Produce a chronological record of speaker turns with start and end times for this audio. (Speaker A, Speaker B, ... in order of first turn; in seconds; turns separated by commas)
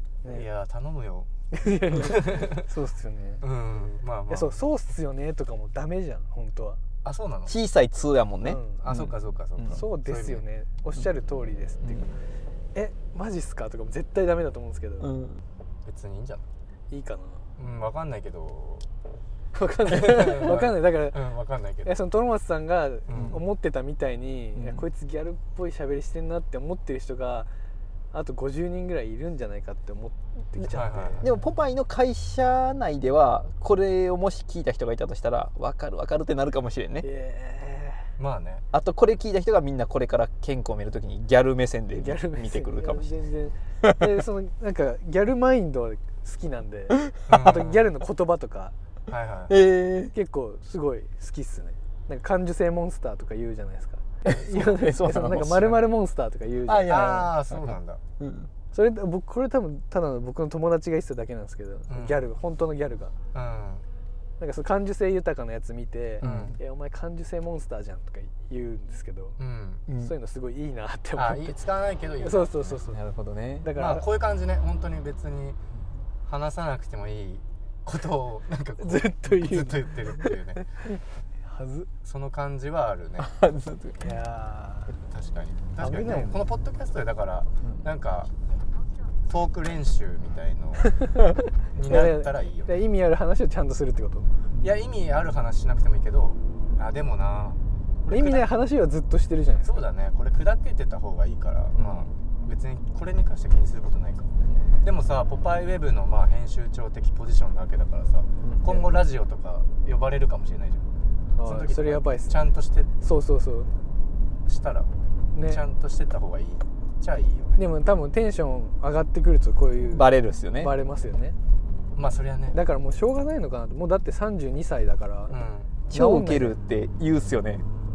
Speaker A: 0.3-1.3, Speaker B: 1.5-3.4, Speaker A: 1.8-2.6, Speaker A: 3.4-4.6, Speaker B: 4.3-6.8, Speaker A: 7.0-7.5, Speaker C: 7.5-9.8, Speaker B: 8.4-8.8, Speaker A: 8.8-10.4, Speaker B: 9.7-12.1, Speaker C: 11.8-12.1, Speaker B: 12.7-15.1, Speaker C: 15.0-15.4, Speaker A: 15.8-16.4, Speaker B: 16.9-17.5, Speaker A: 17.6-18.9, Speaker B: 19.5-21.2, Speaker A: 19.9-21.9, Speaker B: 21.8-27.5, Speaker A: 23.1-23.4, Speaker C: 23.1-23.4, Speaker C: 24.5-24.8, Speaker B: 28.1-31.2, Speaker A: 30.7-31.2, Speaker C: 31.2-37.1, Speaker B: 37.0-38.1, Speaker A: 38.2-38.6, Speaker C: 38.7-43.1, Speaker B: 41.9-48.7, Speaker A: 47.3-47.9, Speaker A: 49.1-49.6, Speaker C: 49.5-50.1, Speaker B: 50.1-57.3, Speaker C: 54.2-55.8, Speaker C: 56.6-58.5, Speaker A: 56.9-58.0, Speaker B: 58.7-63.1, Speaker A: 61.9-62.2, Speaker A: 63.3-63.8, Speaker B: 64.4-69.4, Speaker A: 66.2-66.6, Speaker C: 66.2-66.6, Speaker A: 69.4-69.8, Speaker C: 69.9-70.1, Speaker B: 69.9-71.6, Speaker A: 71.1-72.5, Speaker B: 72.2-73.0, Speaker C: 72.6-73.7, Speaker B: 73.6-74.0, Speaker A: 73.8-75.6, Speaker A: 76.2-80.7, Speaker B: 78.8-81.9, Speaker A: 82.0-83.3, Speaker C: 83.2-84.1, Speaker B: 84.0-84.9, Speaker A: 85.1-88.3, Speaker B: 85.8-86.4, Speaker A: 89.3-91.0, Speaker A: 91.7-92.8, Speaker B: 91.8-94.3, Speaker A: 94.6-98.5, Speaker B: 98.1-99.9, Speaker A: 99.6-104.3, Speaker A: 104.8-110.8, Speaker C: 108.4-108.9, Speaker B: 111.4-112.4, Speaker A: 111.4-112.9, Speaker B: 113.0-113.7, Speaker A: 114.4-114.9, Speaker B: 115.3-115.6, Speaker A: 115.4-117.6, Speaker B: 117.6-121.3, Speaker C: 119.9-120.7, Speaker A: 121.9-122.6, Speaker B: 122.5-126.6, Speaker A: 125.3-125.8, Speaker C: 125.9-127.6